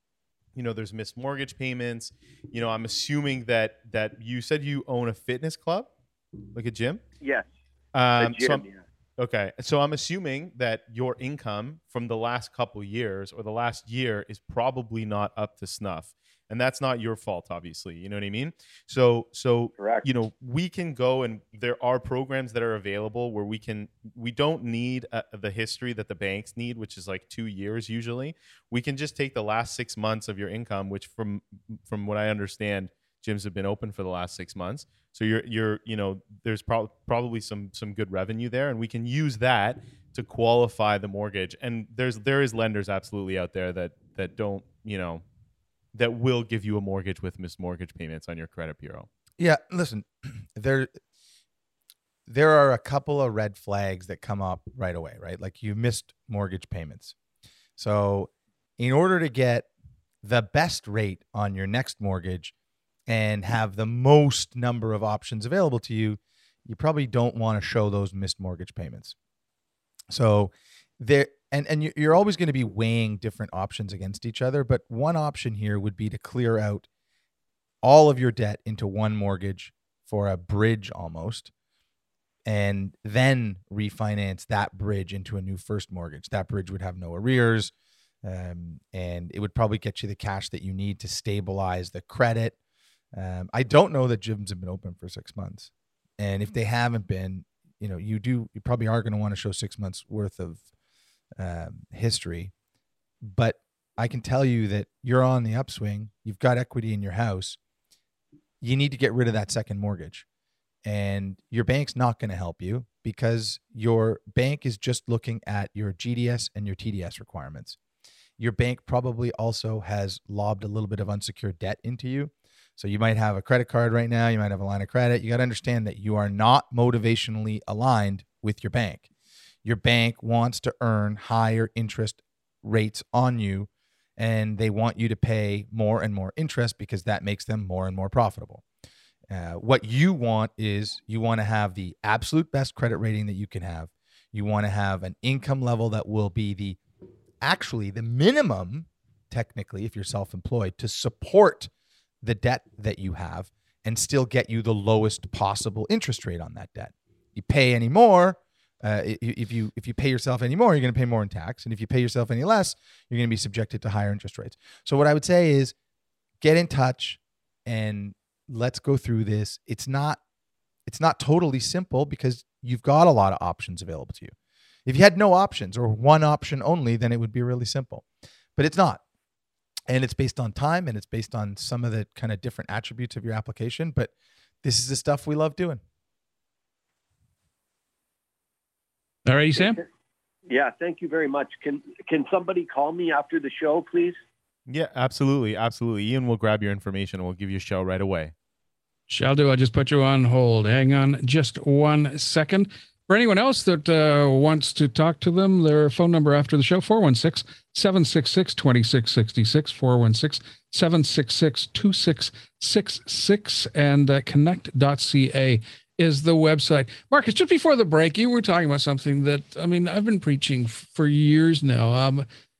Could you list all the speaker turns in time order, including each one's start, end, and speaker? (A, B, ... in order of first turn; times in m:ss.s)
0:00.6-0:05.9 A
0:06.6-0:07.0 A
0:07.2-0:07.5 B
0:07.9-0:08.6 A
0:08.2-0:08.8 B
0:09.2-0:45.2 A
0:19.8-0:20.1 B
0:45.9-0:49.1 A
0:49.4-0:50.9 C
0:52.3-0:57.2 C
0:57.8-0:59.7 C
1:00.2-1:02.5 C
1:03.1-1:09.2 C
1:10.1-1:16.9 C
1:17.8-1:21.5 C
1:22.5-1:27.7 C
1:28.2-1:32.6 C
1:33.1-1:40.6 C
1:41.4-1:42.5 C
1:43.2-1:47.6 C
1:48.6-1:50.3 C
1:50.8-1:57.8 C
1:58.4-2:09.0 C
2:09.6-2:18.6 C
2:19.3-2:26.8 C
2:27.4-2:31.7 C
2:32.2-2:45.7 C
2:46.4-2:50.2 C
2:50.9-2:54.3 C
2:54.9-2:58.0 C
2:58.6-2:59.0 C
2:59.9-3:04.1 C
3:04.6-3:05.8 C
3:09.3-3:09.8 D
3:10.5-3:14.2 B
3:14.7-3:18.3 A
3:19.1-3:42.3 D